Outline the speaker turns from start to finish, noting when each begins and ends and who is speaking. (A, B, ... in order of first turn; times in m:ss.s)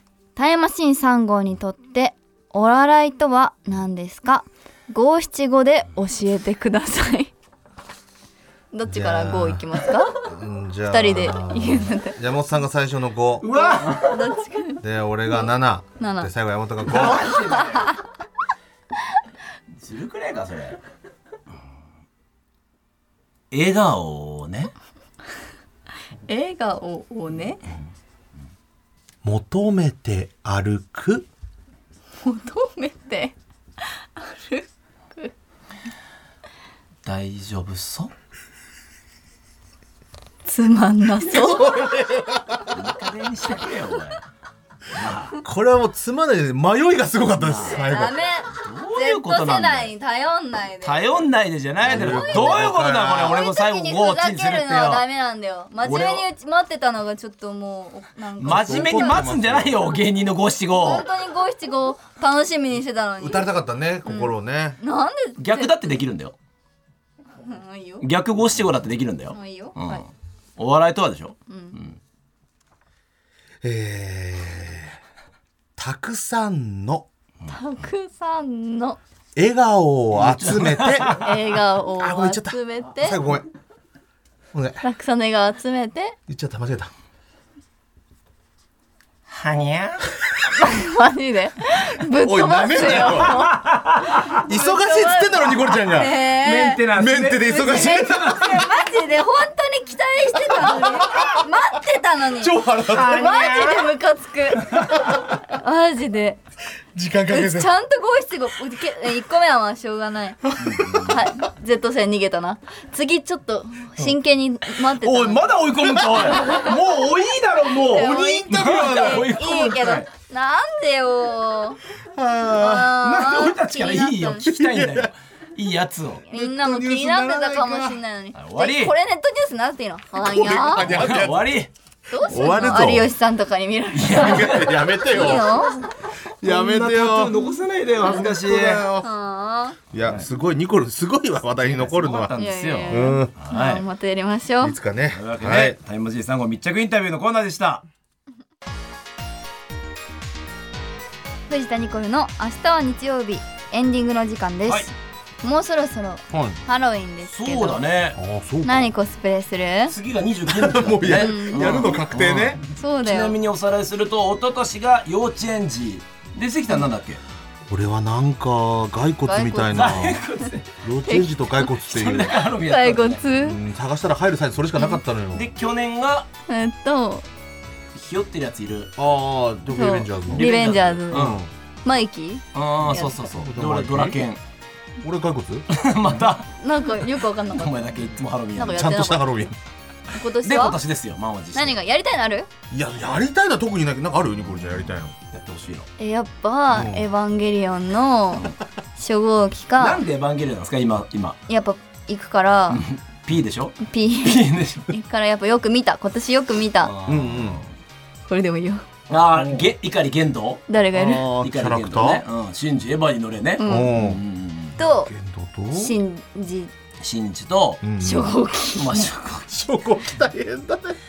0:00.4-0:07.3 A
0:08.7-0:10.2 A
0:08.9-0:13.5 B
0:10.9-0:12.2 A
0:13.4-0:14.3 C
0:13.5-0:15.5 A
0:14.8-0:17.4 B
0:16.0-0:16.3 A
0:16.9-0:17.9 C
0:17.5-0:18.0 A
0:19.8-0:20.8 C
0:23.5-0:24.7 C
0:26.3-0:27.6 A
0:29.2-0:31.3 B
0:32.2-0:35.3 A
0:37.0-0:38.1 C
0:40.4-0:41.8 A
0:41.2-0:42.7 B
0:42.7-0:44.2 C
0:44.9-0:45.4 C
0:45.4-0:48.2 B
0:47.4-0:47.8 C
0:47.6-0:51.0 A
0:48.6-0:49.9 C
0:50.8-0:55.0 C
0:51.8-0:53.4 B
0:51.9-0:59.3 A
0:55.8-0:56.2 C
0:58.4-1:01.0 C
0:58.4-0:59.9 B
1:00.8-1:03.5 A
1:03.2-1:04.8 B
1:04.0-1:05.9 A
1:05.4-1:06.4 C
1:07.4-1:08.0 A
1:08.0-1:10.0 C
1:09.3-1:10.0 A
1:10.6-1:12.0 C
1:11.5-1:11.8 A
1:13.6-1:15.0 B
1:15.8-1:17.1 B
1:17.5-1:19.0 A
1:19.4-1:21.2 B
1:20.1-1:21.4 C
1:21.1-1:23.2 A
1:22.0-1:23.4 B
1:24.5-1:24.8 B
1:24.8-1:26.2 A
1:26.3-1:26.9 B
1:29.3-1:30.1 C
1:30.5-1:33.6 A
1:32.1-1:33.5 B
1:33.1-1:34.4 C
1:34.4-1:36.2 B
1:34.4-1:36.8 A
1:36.0-1:38.7 C
1:36.9-1:38.3 B
1:37.5-1:46.4 A
1:42.4-1:43.5 B
1:42.9-1:43.9 C
1:46.9-1:47.7 B
1:47.3-1:50.4 A
1:50.5-1:51.2 B
1:50.6-1:51.2 C
1:51.0-1:57.0 A
1:54.7-2:00.1 C
1:57.6-2:01.8 A
1:57.9-1:59.3 B
2:02.1-2:03.0 B
2:02.6-2:04.5 A
2:03.0-2:06.2 C
2:04.4-2:05.1 B
2:06.3-2:10.9 A
2:06.3-2:08.0 B
2:08.4-2:08.9 C
2:10.1-2:11.6 B
2:10.8-2:11.7 C
2:12.1-2:15.8 A
2:12.2-2:13.1 B
2:13.9-2:15.6 C
2:14.1-2:15.9 B
2:16.4-2:17.4 B
2:16.4-2:18.9 C
2:18.0-2:19.1 B
2:19.0-2:19.8 A
2:19.9-2:22.4 B
2:21.6-2:23.8 C
2:22.4-2:24.8 A
2:22.9-2:23.3 B
2:24.6-2:25.8 B
2:25.1-2:27.8 C
2:31.5-2:37.8 A
2:36.3-2:36.6 B
2:37.2-2:38.2 C
2:38.1-2:38.9 B
2:38.6-2:40.0 A
2:39.9-2:47.2 C
2:40.5-2:42.6 B
2:41.1-2:42.0 A
2:42.7-2:43.4 A
2:47.7-2:50.2 B
2:49.2-2:50.0 A
2:49.7-2:50.7 C
2:50.8-2:52.4 B
2:51.0-2:51.7 A
2:51.8-2:53.2 C
2:52.5-2:53.6 A
2:53.4-2:55.5 B
2:55.3-2:56.3 C
2:56.5-2:57.2 A
2:57.9-2:58.9 C
2:59.0-3:00.5 B
2:59.7-3:03.2 A
3:00.3-3:01.4 C
3:01.1-3:01.5 B
3:02.5-3:04.4 C
3:03.4-3:04.2 B
3:05.0-3:05.7 B
3:05.7-3:06.5 C
3:06.6-3:07.8 A
3:07.0-3:09.1 C
3:08.6-3:09.5 A
3:08.7-3:09.5 B
3:10.1-3:10.8 A
3:10.4-3:11.8 C
3:11.5-3:12.5 A
3:12.7-3:15.1 B
3:14.5-3:15.9 C
3:16.0-3:20.0 A
3:16.7-3:17.0 B
3:19.8-3:21.4 C
3:21.5-3:22.8 A
3:22.7-3:24.9 C
3:23.8-3:26.9 A
3:26.8-3:27.7 C
3:27.0-3:27.6 B
3:28.3-3:28.8 A
3:29.1-3:34.8 C
3:30.7-3:31.3 A
3:30.9-3:32.2 B
3:33.6-3:33.9 A
3:33.6-3:34.2 B
3:34.7-3:36.0 B
3:34.8-3:35.1 A
3:35.7-3:36.7 A
3:37.0-3:37.8 C
3:37.8-3:38.4 B
3:38.0-3:39.1 A
3:38.7-3:39.5 C
3:39.5-3:41.0 B